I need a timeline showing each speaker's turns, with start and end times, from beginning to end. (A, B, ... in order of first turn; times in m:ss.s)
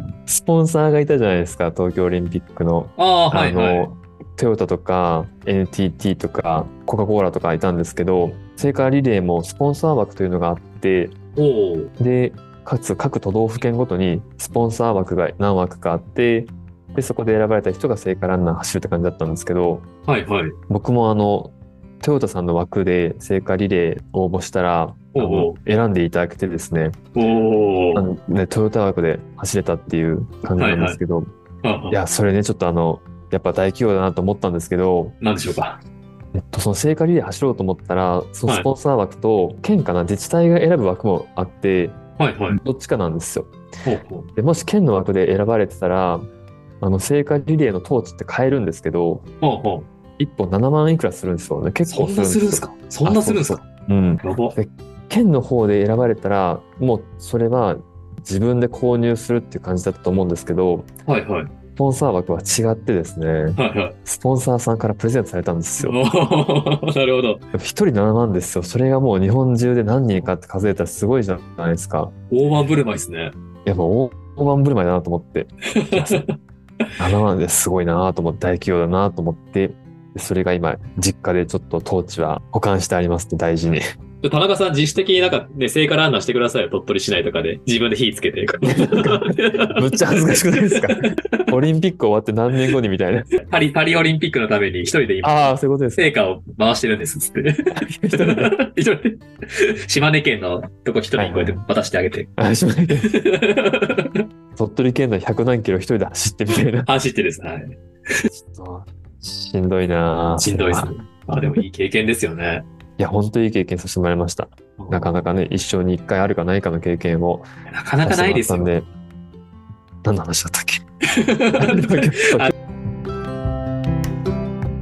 0:00.3-0:11.1 A
0:03.0-0:03.9 B
0:11.4-0:11.9 B
0:12.0-0:19.8 A
0:20.1-0:20.6 B
0:20.7-0:27.0 A
0:25.1-0:25.6 B
0:27.2-0:28.1 B
0:27.9-0:31.3 A
0:30.6-0:31.0 B
0:31.6-0:32.0 B
0:31.9-0:35.2 A
0:35.2-0:35.8 B
0:36.3-0:42.0 A
0:42.2-0:42.6 B
0:42.5-0:43.5 A
0:43.8-0:44.3 B
0:44.4-0:46.2 A
0:46.8-0:49.2 A
0:49.4-0:49.8 B
0:50.2-1:00.9 A
0:51.9-0:53.6 B
0:54.2-0:54.6 B
1:01.0-1:01.5 B
1:01.8-1:06.0 A
1:03.6-1:04.0 B
1:05.8-1:07.4 B
1:07.5-1:12.1 A
1:12.3-1:13.3 B
1:13.6-1:16.2 A
1:15.8-1:16.3 B
1:17.0-1:23.8 A
1:24.2-1:29.9 B
1:28.7-1:33.3 A
1:30.6-1:31.6 B
1:33.4-1:42.3 B
1:35.2-1:36.1 A
1:37.7-1:38.5 A
1:41.2-1:41.6 A
1:42.4-1:43.1 A
1:43.0-1:44.2 B
1:44.6-1:46.9 A
1:46.8-1:48.3 B
1:48.3-1:50.9 A
1:50.4-1:52.6 B
1:53.0-1:57.5 A
1:54.8-1:55.2 B
1:57.7-1:58.7 B
1:58.0-1:58.9 A
2:00.0-2:00.8 A
2:01.1-2:02.5 B
2:01.5-2:02.5 A